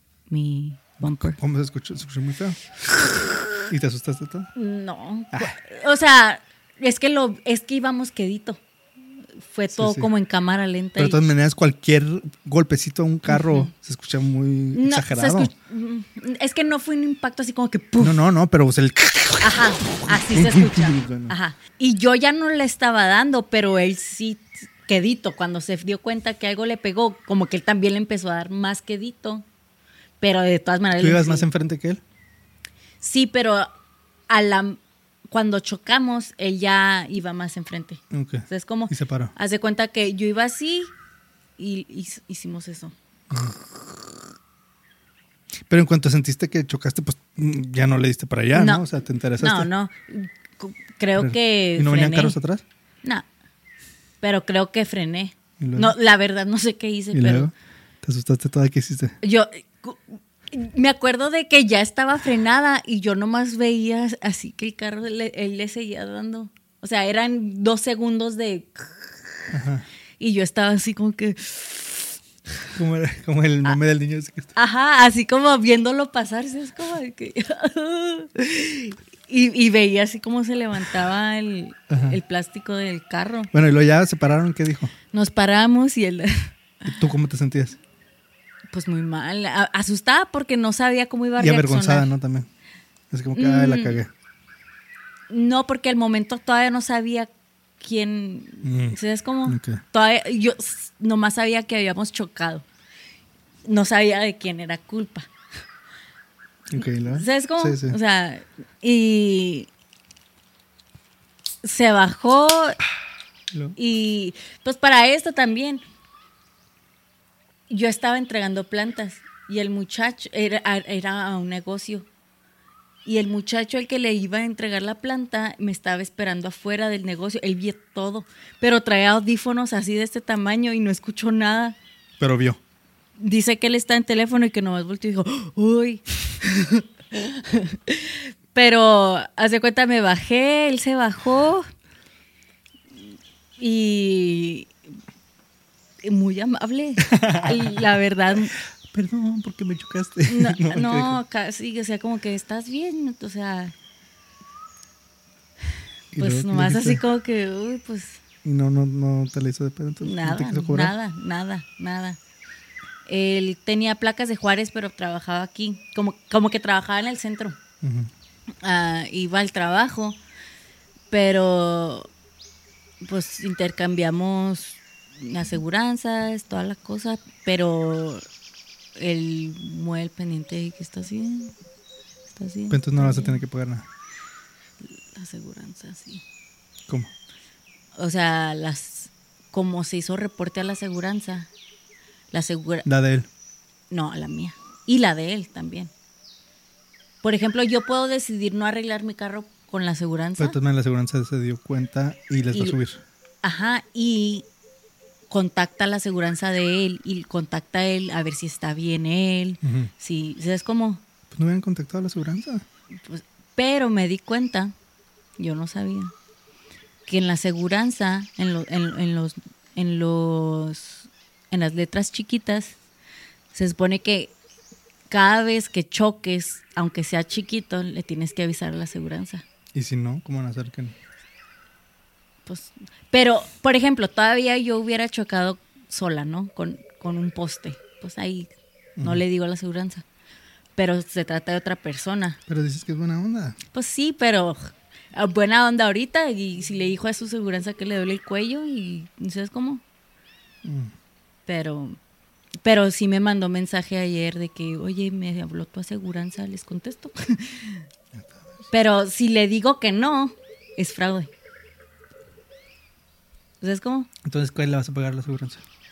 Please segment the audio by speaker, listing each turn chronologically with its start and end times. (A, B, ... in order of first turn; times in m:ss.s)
0:00.3-0:01.4 A
0:01.3-0:02.8 B
0:03.1-0:03.4 A
0:03.6-0:04.5 B
0:04.5-0:08.6 A
0:09.4-0:11.2 A
0:09.7-0:10.1 B
0:11.0-0:15.5 B
0:13.3-0:13.7 A
0:14.7-0:18.2 A
0:18.0-0:21.3 B
0:19.4-0:29.4 A
0:30.2-0:31.4 A
0:31.0-0:32.0 B
0:33.0-0:33.7 A
0:34.3-0:40.9 A
0:38.1-0:39.3 B
0:41.6-0:42.9 A
0:43.3-0:43.6 B
0:45.7-0:49.7 B
0:48.5-0:48.8 A
0:49.4-0:52.4 A
0:51.1-0:52.6 B
0:54.2-0:57.5 A
0:55.6-0:55.9 B
0:57.1-0:59.2 B
0:59.2-1:09.3 A
1:09.5-1:09.8 B
1:10.2-1:12.2 A
1:12.7-1:14.5 B
1:14.5-1:23.5 A
1:21.9-1:22.2 B
1:23.5-1:24.9 B
1:25.1-1:26.5 A
1:26.8-1:27.8 B
1:28.7-1:32.1 A
1:31.4-1:32.5 B
1:33.1-1:34.1 B
1:33.4-1:34.0 A
1:35.3-1:42.6 A
1:38.6-1:39.8 B
1:43.6-1:45.3 A
1:46.7-1:48.0 B
1:46.8-1:49.7 A
1:51.6-1:52.8 A
1:53.5-1:53.8 B
1:53.8-1:55.8 A
1:57.7-2:02.1 A
2:03.0-2:11.8 A
2:12.2-2:12.6 B
2:13.2-2:21.7 A
2:23.6-2:24.7 A
2:26.0-2:28.5 A
2:27.0-2:27.6 B
2:28.9-2:31.2 B
2:30.3-2:33.7 A
2:36.1-2:37.0 B
2:36.2-2:38.2 A
2:38.4-2:40.9 B
2:40.0-2:42.2 A
2:43.0-2:47.6 A
2:47.8-2:48.1 B
2:48.6-2:50.2 A
2:51.1-2:52.1 A
2:53.0-2:58.2 A
2:58.9-3:01.5 A
3:02.3-3:03.4 A
3:02.7-3:03.9 B
3:04.8-3:06.2 A
3:08.0-3:11.5 A
3:12.3-3:12.8 A
3:12.8-3:13.3 B
3:13.9-3:15.9 A
3:17.2-3:20.6 A
3:20.4-3:23.0 B
3:23.4-3:24.4 A
3:25.3-3:31.0 A
3:29.6-3:29.9 B
3:31.3-3:32.6 B
3:33.0-3:34.7 A
3:35.4-3:36.1 A
3:37.1-3:42.8 A
3:43.5-3:44.3 A
3:45.1-3:49.4 A
3:49.7-3:50.9 B
3:52.4-4:00.0 A
3:59.0-3:59.2 B
4:00.8-4:02.4 A
4:02.5-4:03.6 B
4:03.7-4:09.8 A
4:10.6-4:10.9 B
4:11.4-4:12.0 A
4:12.6-4:17.8 A
4:18.2-4:18.4 B
4:18.7-4:21.3 A
4:23.6-4:24.1 A
4:24.2-4:25.6 B